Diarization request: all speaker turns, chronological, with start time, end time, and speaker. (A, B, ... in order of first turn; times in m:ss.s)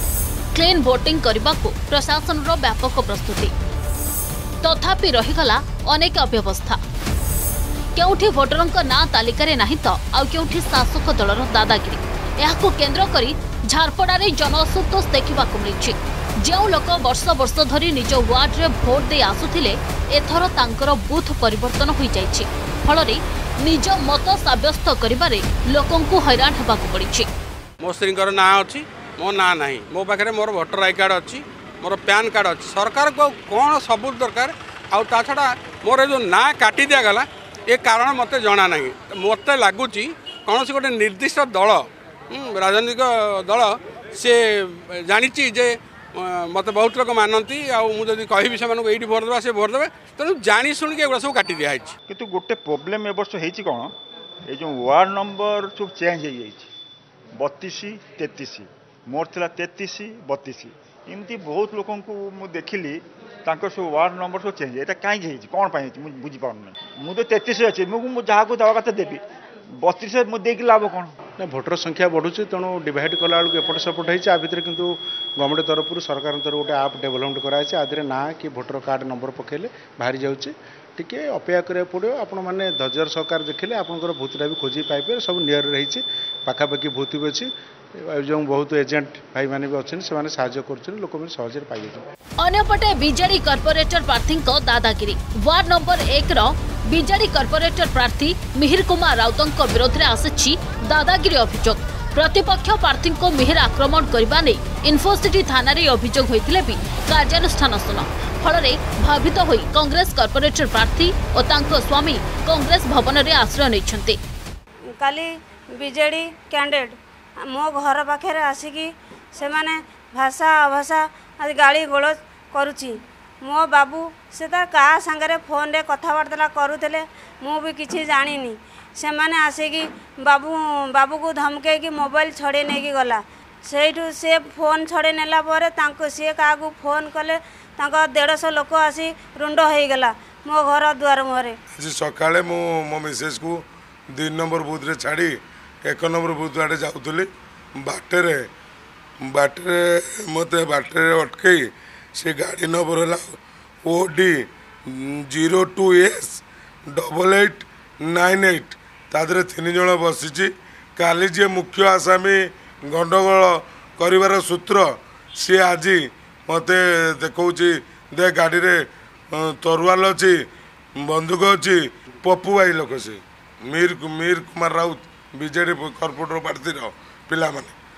0:00.5-0:03.5 A
0:04.6-0:06.8 A
0:07.9-0:27.3 A
0:27.8-0:52.0 B
0:52.1-0:53.9 C
0:54.5-0:56.7 C
0:57.4-1:09.2 C
1:09.8-1:11.1 C
1:11.4-1:27.5 D
1:28.0-1:32.0 D
1:32.4-1:54.2 A
1:55.0-2:21.6 E
2:21.8-2:23.6 F
2:24.1-2:25.3 F
2:25.8-2:27.3 F
2:27.8-2:28.4 F
2:29.2-2:31.6 F
2:32.2-2:33.2 F
2:33.8-2:34.3 F
2:34.9-2:44.9 F
2:45.4-2:48.8 F
2:49.3-2:50.3 F
2:51.1-2:57.7 F